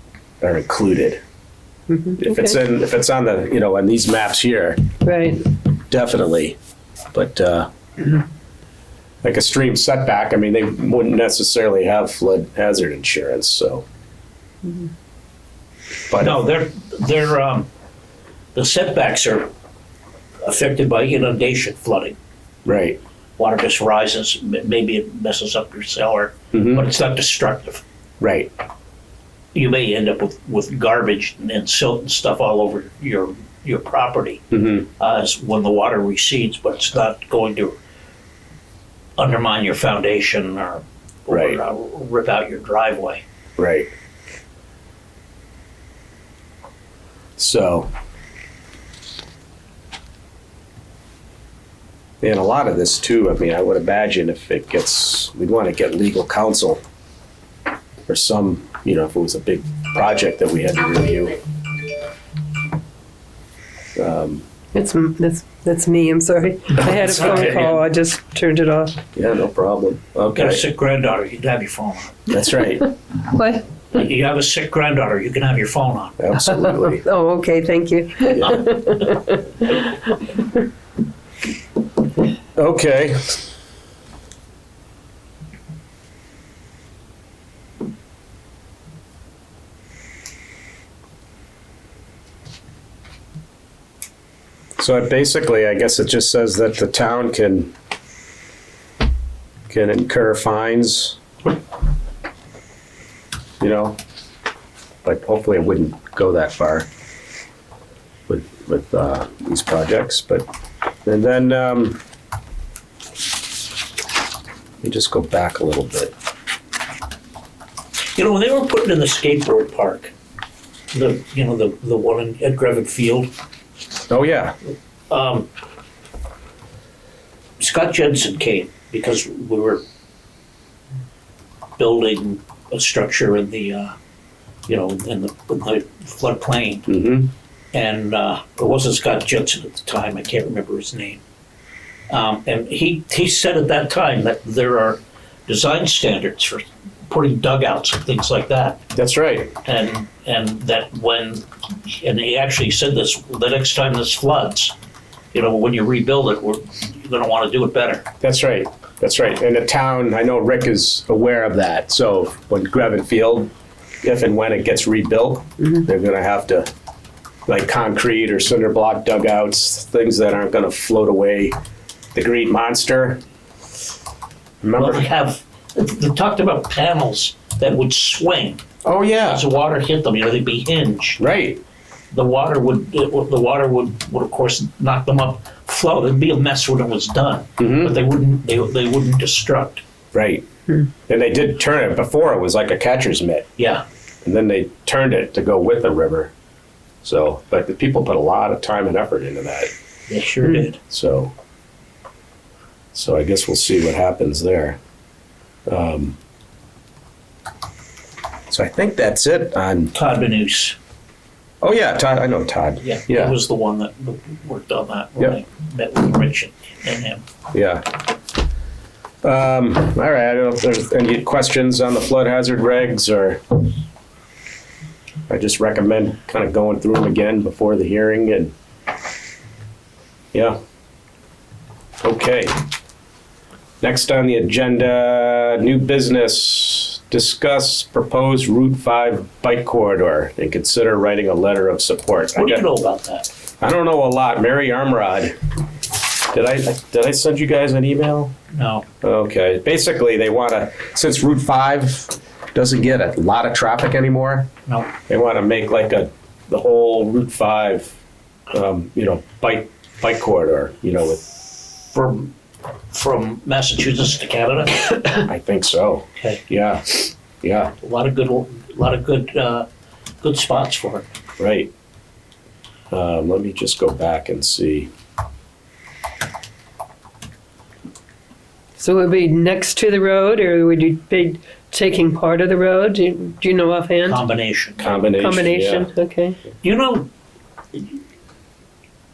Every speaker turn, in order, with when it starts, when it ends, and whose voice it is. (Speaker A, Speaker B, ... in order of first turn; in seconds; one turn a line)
Speaker A: 0.4-1.2
Speaker B: 1.9-2.6
Speaker A: 2.2-4.8
Speaker B: 5.0-5.5
Speaker A: 5.9-6.6
Speaker A: 7.1-7.7
Speaker A: 9.2-13.8
Speaker A: 16.1-16.4
Speaker C: 16.2-17.7
Speaker C: 18.5-19.5
Speaker C: 20.4-22.1
Speaker A: 22.6-23.0
Speaker C: 23.4-27.8
Speaker A: 26.5-26.8
Speaker A: 28.2-28.5
Speaker C: 29.5-37.8
Speaker A: 34.5-34.8
Speaker C: 39.2-43.2
Speaker A: 41.3-41.6
Speaker A: 43.6-43.9
Speaker A: 47.4-47.9
Speaker A: 52.2-56.8
Speaker A: 58.1-61.4
Speaker A: 64.0-64.5
Speaker B: 64.7-69.0
Speaker C: 66.7-67.8
Speaker A: 66.8-67.8
Speaker A: 69.1-70.6
Speaker C: 70.3-72.3
Speaker A: 72.3-72.9
Speaker B: 73.2-73.6
Speaker C: 73.9-76.2
Speaker A: 76.2-77.0
Speaker B: 76.5-80.0
Speaker A: 78.3-78.7
Speaker A: 82.5-83.4
Speaker A: 94.8-97.7
Speaker A: 99.7-101.2
Speaker A: 103.6-104.0
Speaker A: 105.0-106.9
Speaker A: 108.3-110.5
Speaker A: 111.0-112.0
Speaker A: 114.8-116.1
Speaker C: 118.1-120.1
Speaker C: 120.9-123.3
Speaker A: 124.1-124.5
Speaker C: 125.1-125.5
Speaker C: 127.6-129.8
Speaker C: 131.8-133.9
Speaker C: 134.7-136.9
Speaker A: 136.9-137.3
Speaker C: 137.7-141.2
Speaker C: 142.1-148.8
Speaker A: 148.9-149.5
Speaker C: 149.6-154.7
Speaker C: 155.3-158.1
Speaker A: 158.2-163.5
Speaker A: 164.0-166.7
Speaker A: 167.5-171.5
Speaker A: 172.1-173.2
Speaker A: 174.6-175.1
Speaker C: 174.8-178.6
Speaker A: 178.8-179.4
Speaker C: 179.2-181.2
Speaker A: 181.2-181.6
Speaker C: 182.1-189.8
Speaker A: 187.6-187.9
Speaker A: 190.1-190.4
Speaker A: 191.1-193.5
Speaker C: 193.6-193.8
Speaker A: 194.2-196.3
Speaker A: 197.0-199.7
Speaker C: 200.1-200.8
Speaker A: 200.8-201.3
Speaker A: 202.9-204.8
Speaker A: 205.7-206.2
Speaker A: 208.5-209.9
Speaker C: 209.9-210.8
Speaker A: 211.6-213.3
Speaker C: 212.8-217.2
Speaker A: 217.5-218.0
Speaker A: 219.2-223.5
Speaker A: 225.3-228.5
Speaker A: 230.3-230.6
Speaker A: 232.0-232.6
Speaker A: 233.8-242.6
Speaker C: 242.3-243.3
Speaker A: 243.6-245.3
Speaker A: 246.3-248.3
Speaker C: 248.5-248.8
Speaker A: 249.0-254.5
Speaker A: 255.1-257.9
Speaker A: 258.5-261.2
Speaker C: 261.6-262.3
Speaker C: 262.9-265.3
Speaker A: 265.2-267.7
Speaker C: 266.2-266.4
Speaker C: 267.8-269.7
Speaker C: 270.2-271.1
Speaker A: 271.4-271.7
Speaker A: 272.9-274.9
Speaker B: 278.8-284.2
Speaker C: 284.0-285.2
Speaker A: 284.8-285.9
Speaker B: 285.2-286.4
Speaker C: 286.6-287.1